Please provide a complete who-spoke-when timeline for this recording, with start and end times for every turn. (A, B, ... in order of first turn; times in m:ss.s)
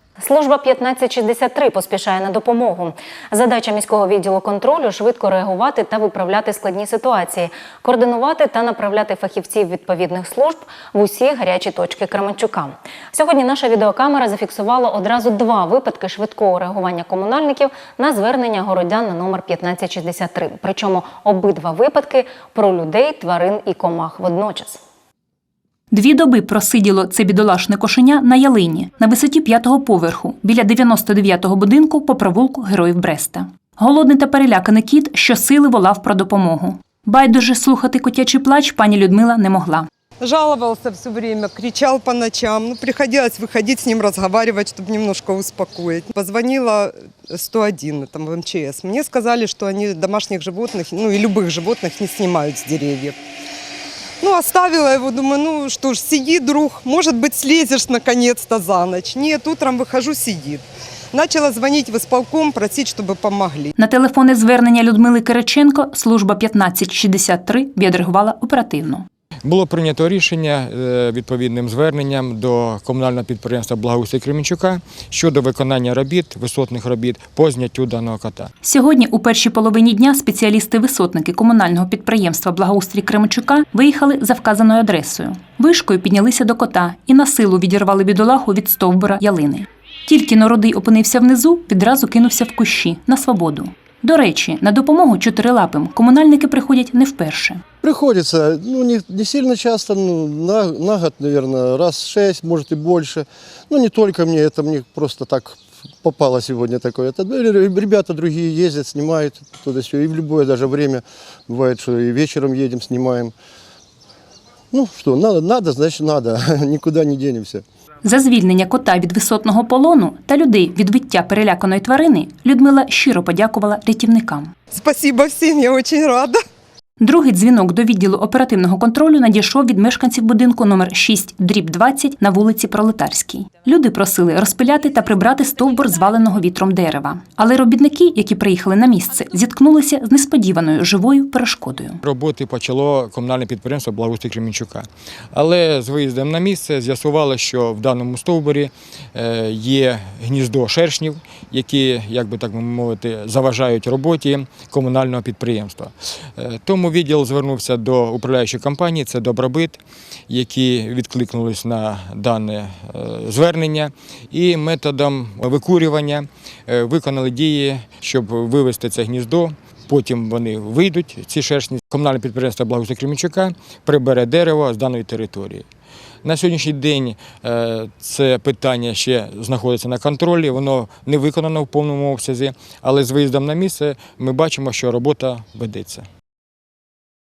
0:00.2-0:24.8 A
0:25.9-0:39.9 B
0:40.2-0:53.1 C
0:54.2-1:00.6 C
1:01.1-1:03.7 C
1:03.8-1:09.0 B
1:09.4-1:18.5 D
1:18.6-1:37.6 B
1:37.8-1:53.3 E
1:54.7-1:57.6 E
1:58.0-2:04.5 B
2:04.8-2:06.4 C
2:07.0-2:22.0 B
2:22.0-2:55.6 D
2:56.2-3:06.0 D